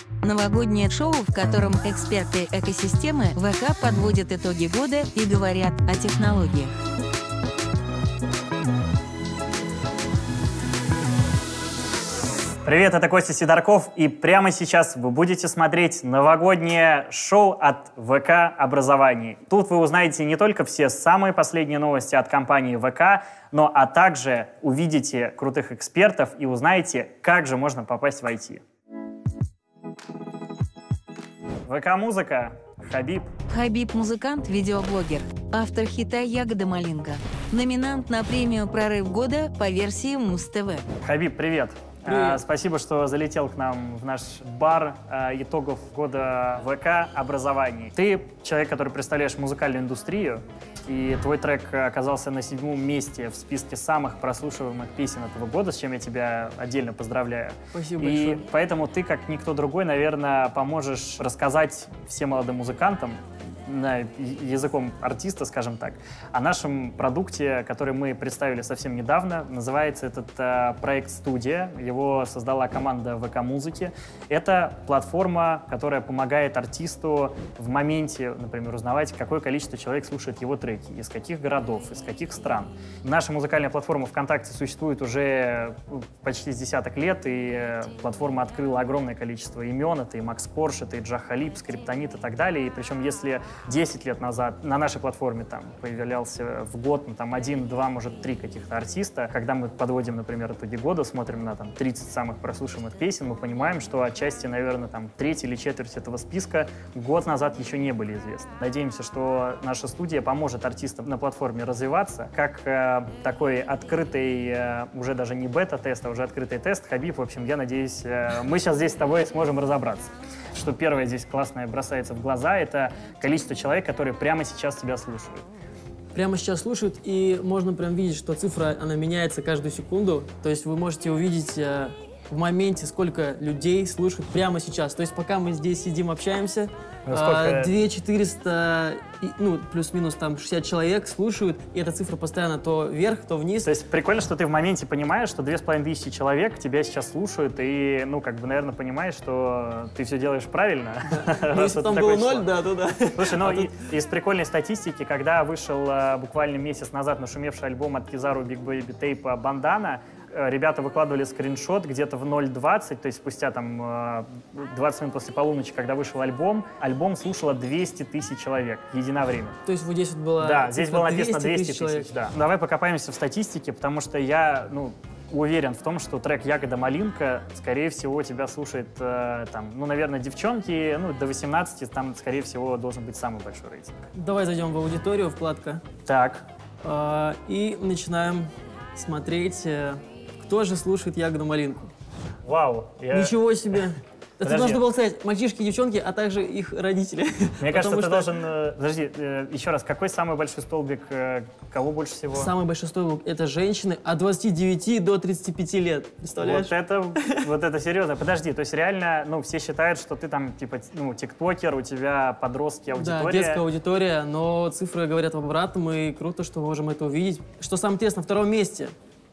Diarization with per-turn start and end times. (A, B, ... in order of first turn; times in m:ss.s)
0:00.2-0:06.7 A
0:12.6-0:28.6 B
0:31.7-0:33.3 B
0:33.5-0:40.8 A
0:41.0-2:05.4 B
0:42.1-0:42.4 C
0:57.7-0:58.5 C
2:06.1-2:23.7 C
2:17.1-2:17.7 B
2:23.6-2:32.5 B
2:31.1-2:33.7 C
2:33.1-2:49.6 B
2:49.6-2:52.1 C
2:50.4-3:04.0 B
3:04.1-3:05.8 C
3:06.1-3:06.5 B
3:06.8-3:11.9 C
3:12.4-3:13.8 B
3:13.1-3:18.4 C
3:14.4-3:14.8 B
3:17.6-3:22.5 B
3:22.3-3:27.4 C
3:26.4-3:33.6 B
3:32.9-3:38.9 C